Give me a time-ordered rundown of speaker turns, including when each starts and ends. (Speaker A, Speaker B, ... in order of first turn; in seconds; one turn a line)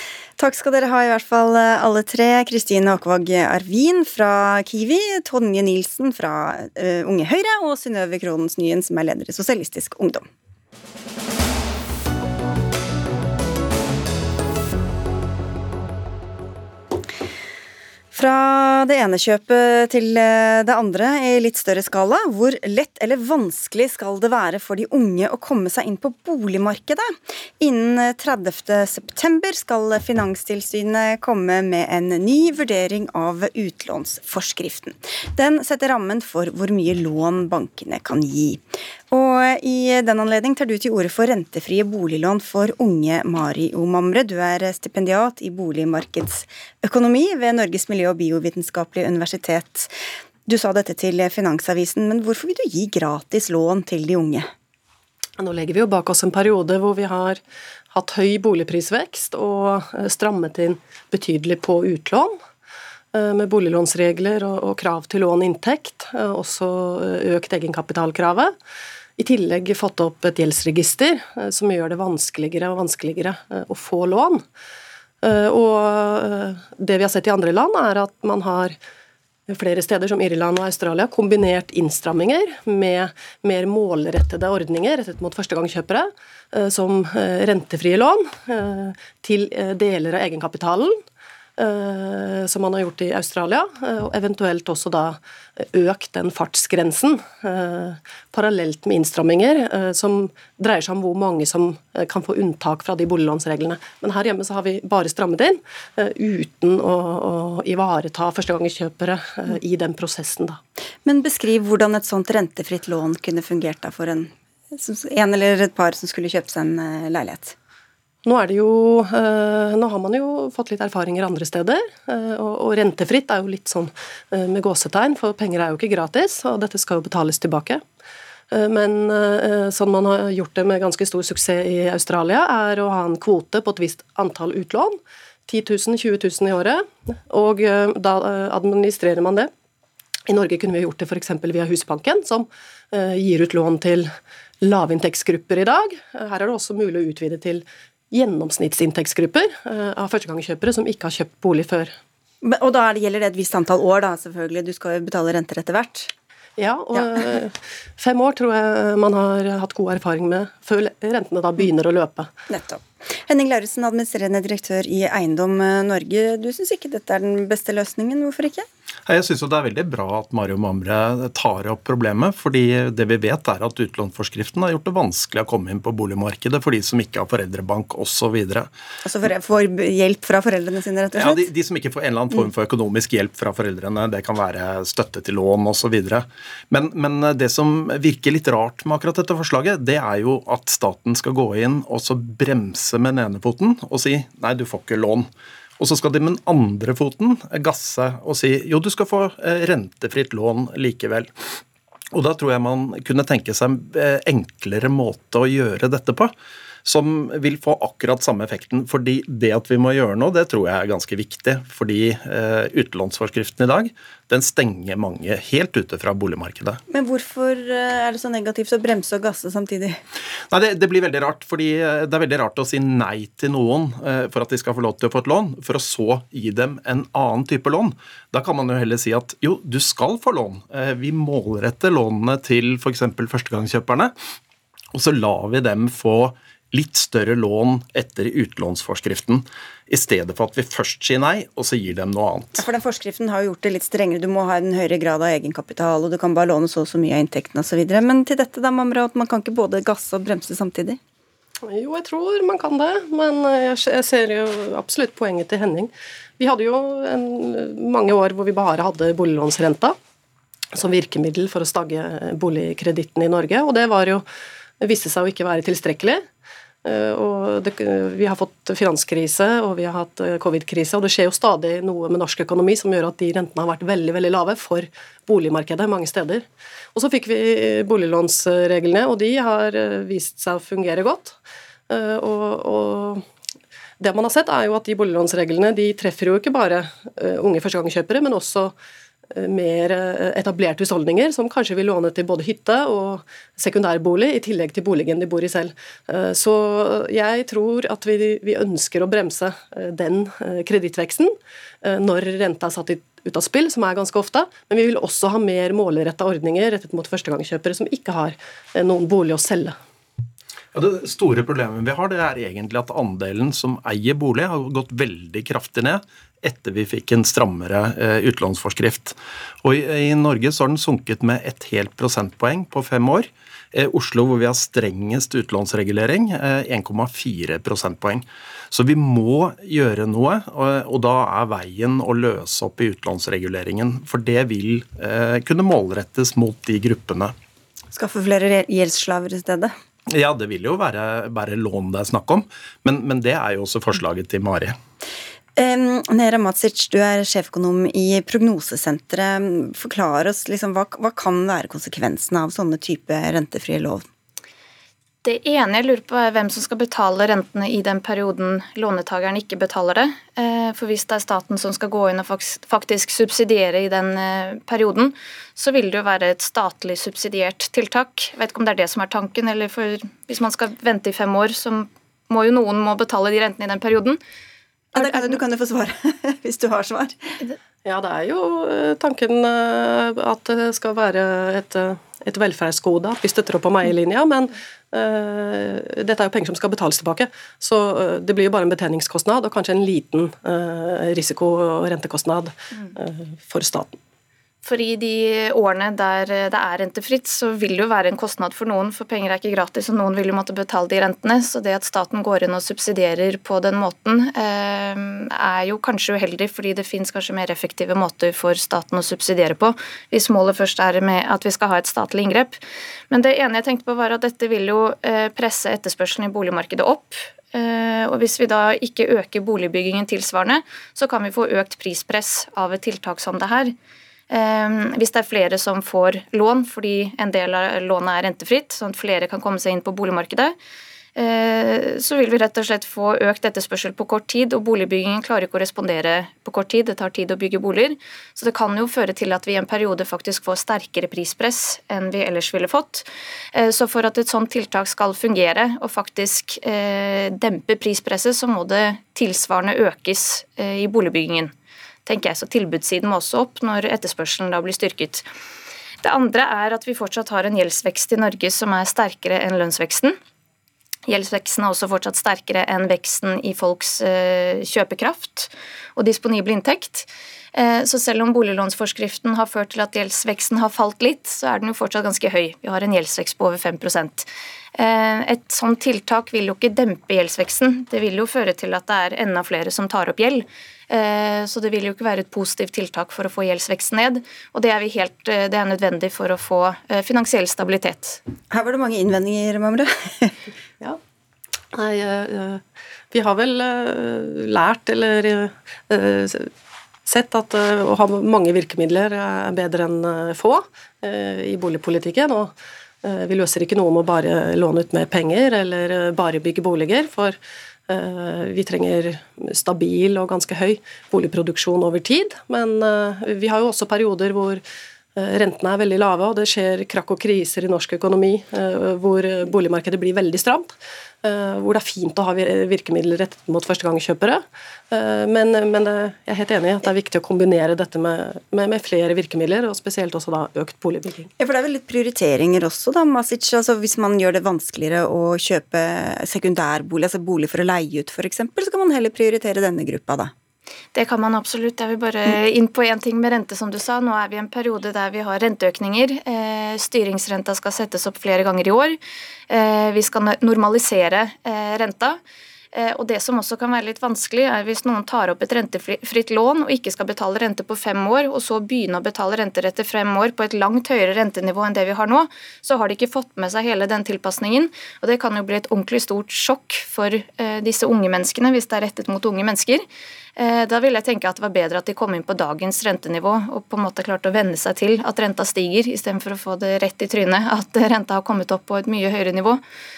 Speaker A: 0.4-10.3
Speaker A: 18.1-49.9
Speaker A: 50.5-54.5
Speaker B: 55.4-57.4
Speaker B: 57.9-62.4
Speaker B: 63.1-68.5
Speaker B: 69.2-74.4
Speaker B: 75.2-78.8
Speaker B: 79.5-91.0
Speaker B: 91.6-110.6
Speaker A: 111.0-117.6
Speaker B: 118.2-127.8
Speaker B: 128.5-139.5
Speaker B: 140.3-151.9
Speaker A: 152.4-156.1
Speaker B: 156.6-162.3
Speaker A: 162.5-168.7
Speaker C: 169.1-178.7
Speaker A: 179.0-181.5
Speaker C: 181.2-195.3
Speaker C: 195.8-201.3
Speaker C: 202.1-216.8
Speaker A: 216.9-220.0
Speaker C: 220.5-234.1
Speaker C: 234.9-242.6
Speaker A: 242.6-251.0
Speaker B: 251.6-260.0
Speaker B: 260.7-264.3
Speaker B: 264.8-266.2
Speaker B: 266.9-281.4
Speaker B: 281.9-283.2
Speaker B: 284.0-288.8
Speaker B: 289.3-309.8
Speaker C: 310.7-337.3
Speaker A: 337.9-339.7
Speaker C: 340.1-344.8
Speaker A: 345.6-354.1
Speaker D: 355.2-374.2
Speaker A: 374.9-377.4
Speaker D: 375.0-375.3
Speaker B: 377.9-394.0
Speaker D: 394.6-412.6
Speaker D: 413.1-423.8
Speaker D: 424.3-430.6
Speaker D: 431.2-451.5
Speaker D: 452.1-455.3
Speaker D: 456.0-460.2
Speaker D: 461.1-488.2
Speaker A: 488.5-490.4
Speaker B: 491.7-496.5
Speaker B: 497.1-507.4
Speaker B: 507.9-514.6
Speaker B: 515.2-531.3
Speaker A: 531.4-540.3
Speaker D: 541.0-549.0
Speaker D: 549.5-552.2
Speaker D: 552.7-569.9
Speaker D: 570.4-579.6